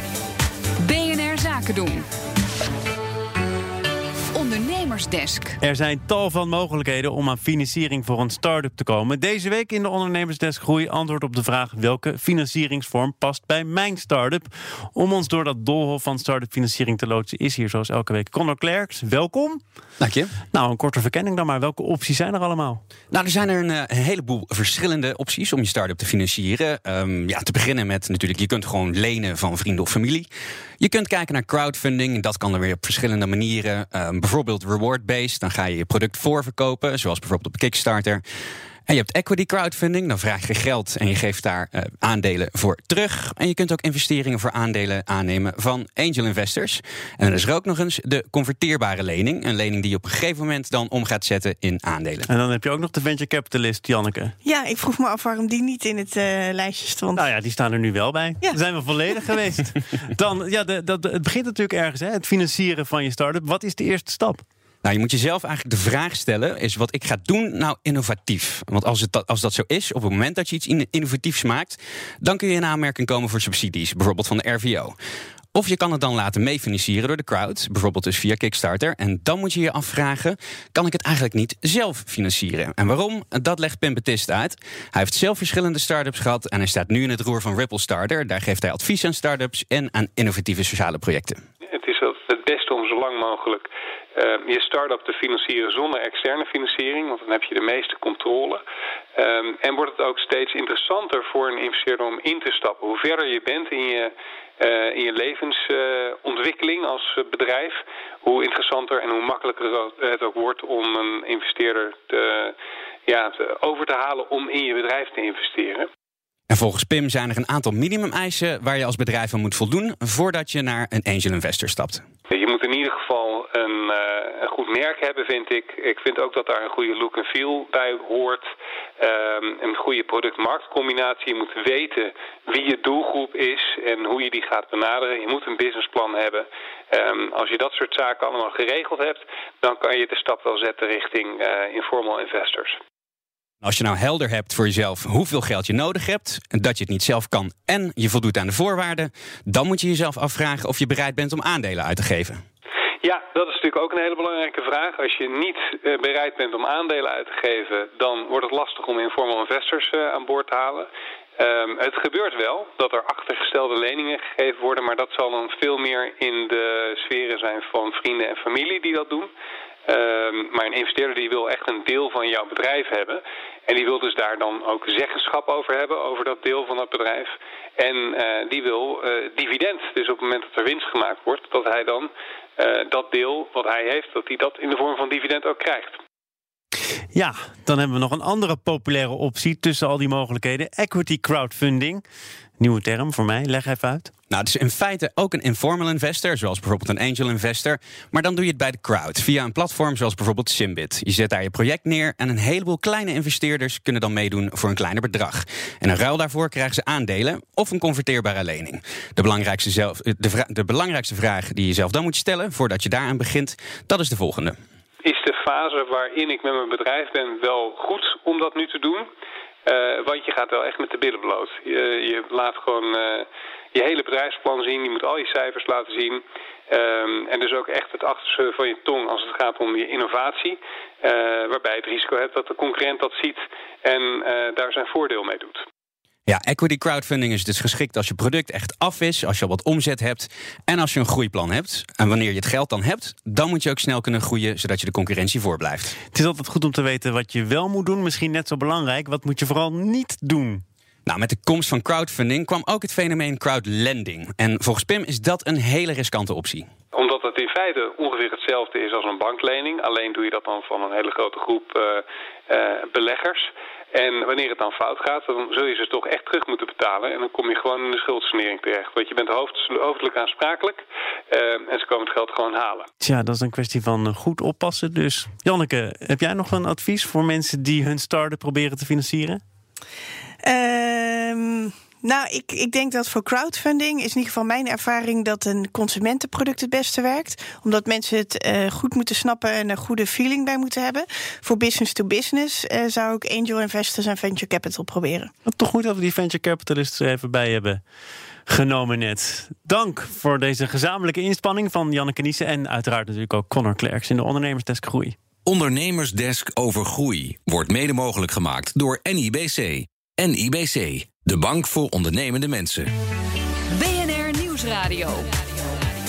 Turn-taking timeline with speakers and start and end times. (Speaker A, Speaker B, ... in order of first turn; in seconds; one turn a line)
Speaker A: 0.8-2.0
Speaker A: 4.3-5.6
Speaker B: 5.6-19.6
Speaker C: 20.0-20.3
Speaker B: 20.5-22.8
Speaker C: 23.1-30.3
Speaker C: 30.8-38.2
Speaker C: 38.9-52.3
Speaker B: 52.3-54.3
Speaker D: 54.4-57.3
Speaker B: 57.1-64.4
Speaker C: 64.8-74.9
Speaker C: 75.5-91.4
Speaker E: 91.7-98.6
Speaker E: 99.2-112.5
Speaker E: 113.0-115.9
Speaker C: 116.5-122.0
Speaker E: 122.3-128.4
Speaker E: 129.0-142.8
Speaker C: 143.6-152.4
Speaker E: 153.0-169.3
Speaker E: 169.8-186.0
Speaker B: 187.1-192.0
Speaker B: 192.6-194.1
Speaker C: 194.3-214.5
Speaker E: 215.0-219.1
Speaker E: 219.6-235.6
Speaker C: 236.3-245.9
Speaker B: 246.1-250.6
Speaker C: 251.1-256.7
Speaker E: 256.9-272.9
Speaker B: 273.0-279.4
Speaker D: 280.4-295.3
Speaker B: 295.4-297.8
Speaker B: 298.5-305.1
Speaker F: 305.4-312.9
Speaker A: 313.7-315.3